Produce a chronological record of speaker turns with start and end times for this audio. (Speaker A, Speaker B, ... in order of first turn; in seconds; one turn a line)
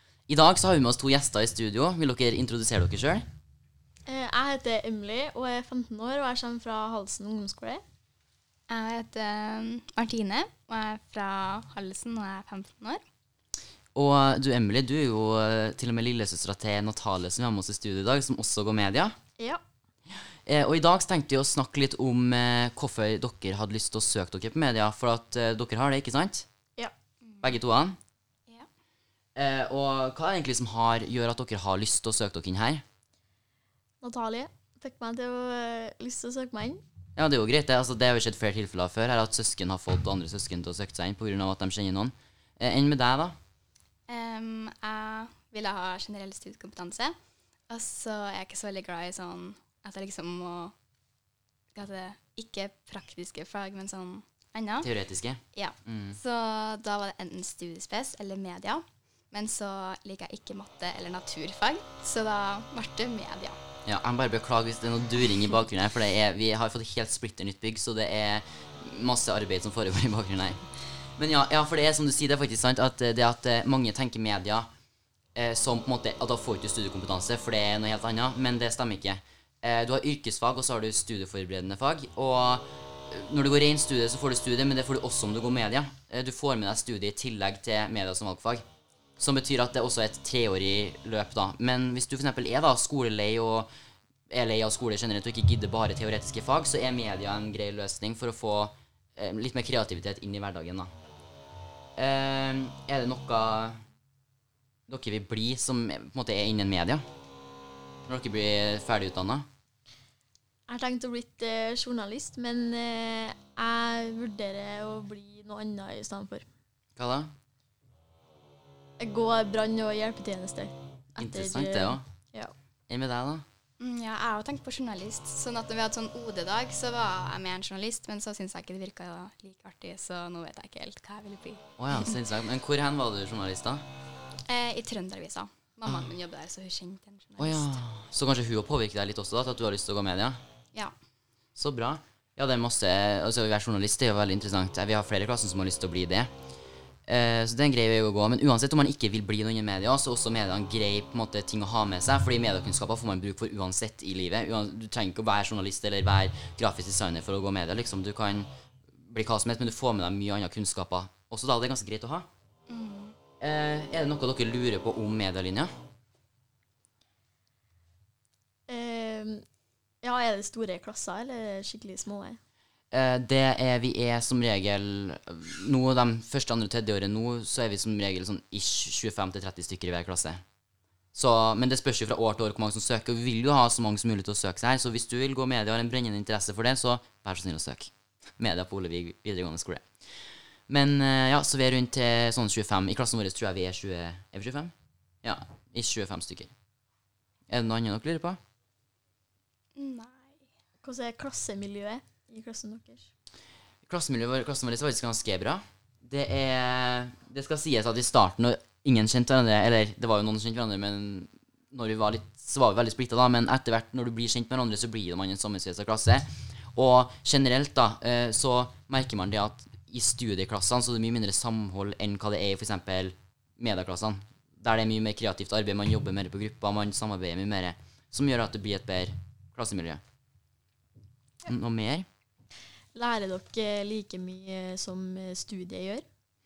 Speaker A: 0.3-3.3
Speaker B: 4.1-7.8
Speaker C: 8.7-13.0
Speaker A: 13.9-19.2
Speaker A: 20.5-26.5
Speaker A: 27.4-28.0
Speaker A: 29.4-32.8
Speaker B: 34.0-36.8
Speaker A: 37.2-43.4
Speaker C: 44.1-47.2
Speaker C: 47.7-50.7
Speaker C: 51.7-54.9
Speaker A: 54.8-56.2
Speaker C: 55.5-63.6
Speaker A: 63.9-70.6
Speaker A: 71.2-74.7
Speaker A: 75.4-88.6
Speaker A: 89.2-93.7
Speaker A: 94.3-100.9
Speaker A: 102.0-103.8
Speaker A: 104.9-107.0
Speaker A: 108.1-109.5
Speaker B: 110.7-116.5
Speaker A: 117.0-117.3
Speaker B: 119.0-122.5
Speaker A: 121.2-122.1
Speaker A: 122.9-123.5
Speaker C: 123.8-132.1
Speaker A: 131.8-133.8
Speaker C: 134.5-137.8
Speaker A: 135.9-136.1
Speaker A: 137.4-140.4
Speaker A: 141.6-146.3
Speaker A: 147.1-158.5
Speaker A: 159.1-162.3
Speaker C: 162.7-163.2
Speaker A: 163.4-165.7
Speaker B: 168.7-169.4
Speaker B: 170.0-172.4
Speaker A: 172.9-180.4
Speaker A: 181.1-189.9
Speaker A: 190.7-196.5
Speaker A: 197.5-198.4
Speaker C: 199.8-200.4
Speaker B: 200.8-203.1
Speaker A: 203.9-230.0
Speaker A: 231.5-232.1
Speaker B: 232.9-236.1